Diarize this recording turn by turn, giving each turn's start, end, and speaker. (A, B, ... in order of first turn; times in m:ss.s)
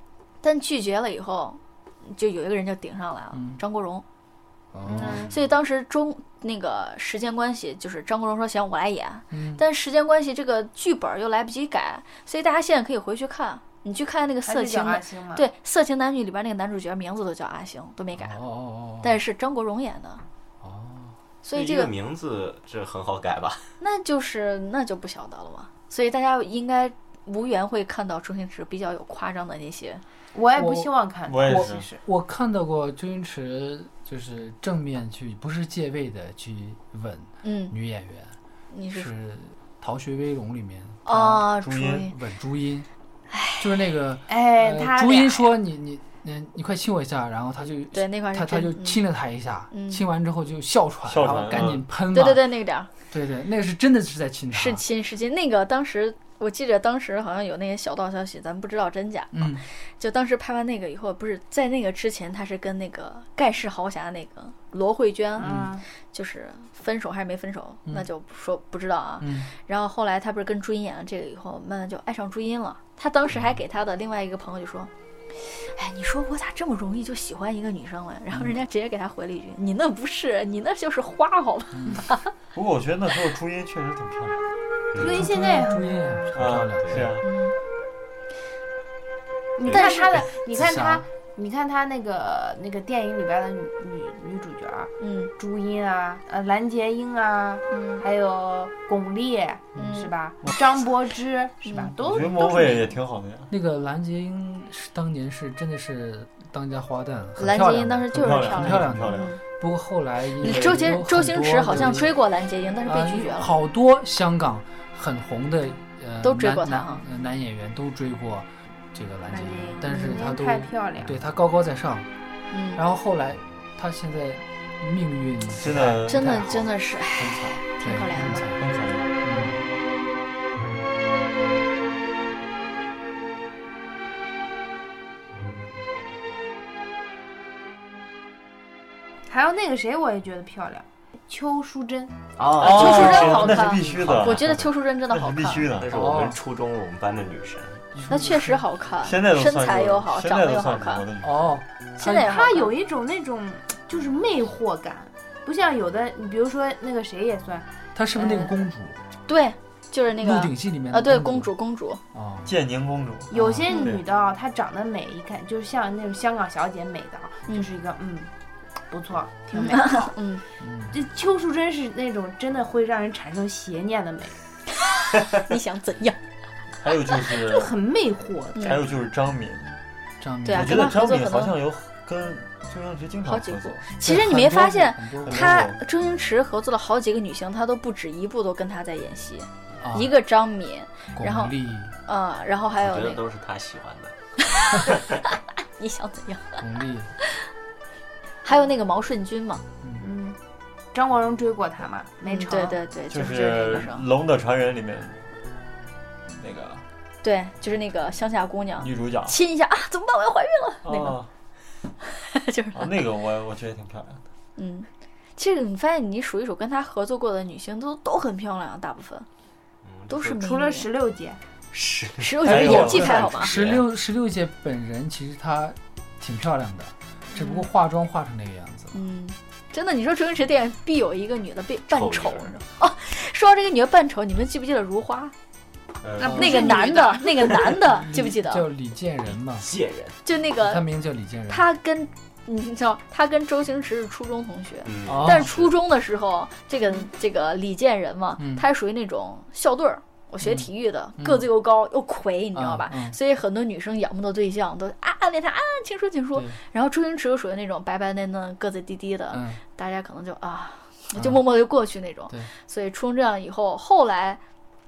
0:00.4-0:04.0 A
0:03.3-0:03.6 B
0:04.7-0:05.3 B
0:04.9-0:05.3 C
0:05.2-0:18.4 A
0:09.3-0:09.6 B
0:14.4-0:15.4 C
0:18.2-0:19.2 B
0:19.0-0:20.2 A
0:20.6-0:21.1 B
0:21.4-0:21.9 A
0:21.5-0:23.7 D
0:23.8-0:30.0 A
0:30.3-0:32.0 C
0:30.5-0:30.9 B
0:31.3-0:31.9 E
0:31.4-0:38.4 B
0:37.4-0:37.7 A
0:38.7-0:39.1 A
0:38.9-0:42.9 B
0:41.0-0:42.1 A
0:41.6-0:42.0 E
0:43.3-0:43.6 A
0:43.6-0:52.5 B
0:44.3-0:45.5 C
0:47.9-0:49.0 A
0:49.7-0:50.0 A
0:51.1-0:51.8 E
0:52.1-0:52.9 A
0:53.1-0:54.8 B
0:54.5-1:22.3 A
0:59.3-0:59.6 B
1:05.4-1:05.8 C
1:05.4-1:05.7 B
1:09.2-1:09.5 B
1:21.7-1:22.0 B
1:22.5-1:24.4 E
1:24.9-1:25.2 D
1:25.0-1:26.3 C
1:25.0-1:27.2 B
1:26.3-1:27.2 E
1:26.8-1:27.1 D
1:27.2-1:27.5 A
1:29.6-1:43.0 C
1:29.7-1:30.2 A
1:30.5-1:31.0 B
1:35.0-1:35.3 A
1:37.7-1:38.0 A
1:39.8-1:40.1 A
1:41.6-1:41.9 A
1:42.0-1:43.5 E
1:43.5-1:52.1 B
1:47.4-1:49.4 A
1:48.1-1:49.3 E
1:50.4-1:53.5 A
1:50.4-1:50.8 E
1:52.8-2:02.1 B
1:56.2-1:57.0 A
1:59.3-2:01.1 C
2:02.5-2:02.8 A
2:02.7-2:08.6 B
2:05.5-2:06.6 E
2:06.0-2:08.4 A
2:08.4-2:09.1 E
2:09.2-2:09.6 B
2:19.3-2:22.2 C
2:22.4-2:24.7 D
2:22.5-2:26.0 E
2:22.6-2:25.7 A
2:25.8-2:27.9 D
2:25.9-2:26.4 B
2:28.0-2:28.6 B
2:28.1-2:31.0 A
2:29.0-2:31.6 E
2:31.2-2:32.4 B
2:32.0-2:32.7 A
2:32.0-2:37.7 C
2:37.9-2:39.0 B
2:39.3-2:42.0 A
2:40.2-2:41.5 B
2:42.1-2:42.5 B
2:42.4-2:44.0 E
2:43.3-2:48.3 C
2:43.3-2:43.7 B
2:43.7-2:44.0 A
2:48.9-2:50.1 C
2:49.5-2:50.4 A
2:50.6-2:51.0 B
2:50.9-2:54.4 C
2:55.1-2:56.2 A
2:56.8-2:57.8 E
2:57.3-2:58.9 C
2:58.6-2:59.8 E
3:00.2-3:00.9 B
3:00.4-3:01.5 A
3:00.5-3:03.9 E
3:03.2-3:13.2 A
3:04.0-3:05.6 B
3:05.2-3:05.8 E
3:09.8-3:10.1 B
3:11.1-3:11.9 B
3:12.8-3:14.2 D
3:14.5-3:15.0 A
3:15.8-3:16.6 A
3:16.6-3:17.1 B
3:17.2-3:17.5 A
3:18.4-3:19.6 A
3:20.0-3:20.4 C
3:20.9-3:22.8 C
3:22.2-3:24.0 A
3:23.1-3:25.2 E
3:26.3-3:26.8 E
3:27.2-3:31.1 A
3:28.8-3:29.4 E
3:30.8-3:31.3 E
3:32.2-3:32.9 A
3:32.7-3:34.2 E
3:34.6-3:39.3 A
3:39.8-3:40.4 D
3:40.1-3:40.9 A
3:40.4-3:41.4 C
3:41.7-3:43.8 D
3:42.2-3:43.5 A
3:42.4-3:43.2 E
3:42.4-3:49.0 B
3:48.9-3:55.3 A
3:51.9-3:52.5 D
3:56.0-3:56.5 D
3:56.2-3:57.6 C
3:56.2-3:56.8 B
3:56.3-3:58.7 A
3:57.6-3:59.7 B
3:59.5-4:00.2 D
4:00.2-4:00.8 A
4:00.6-4:01.6 B
4:01.5-4:24.4 A
4:04.8-4:05.7 D
4:05.0-4:05.6 B
4:08.4-4:08.6 B
4:10.4-4:10.7 B
4:11.2-4:11.5 B
4:12.5-4:13.2 B
4:19.3-4:19.6 B
4:21.1-4:21.4 B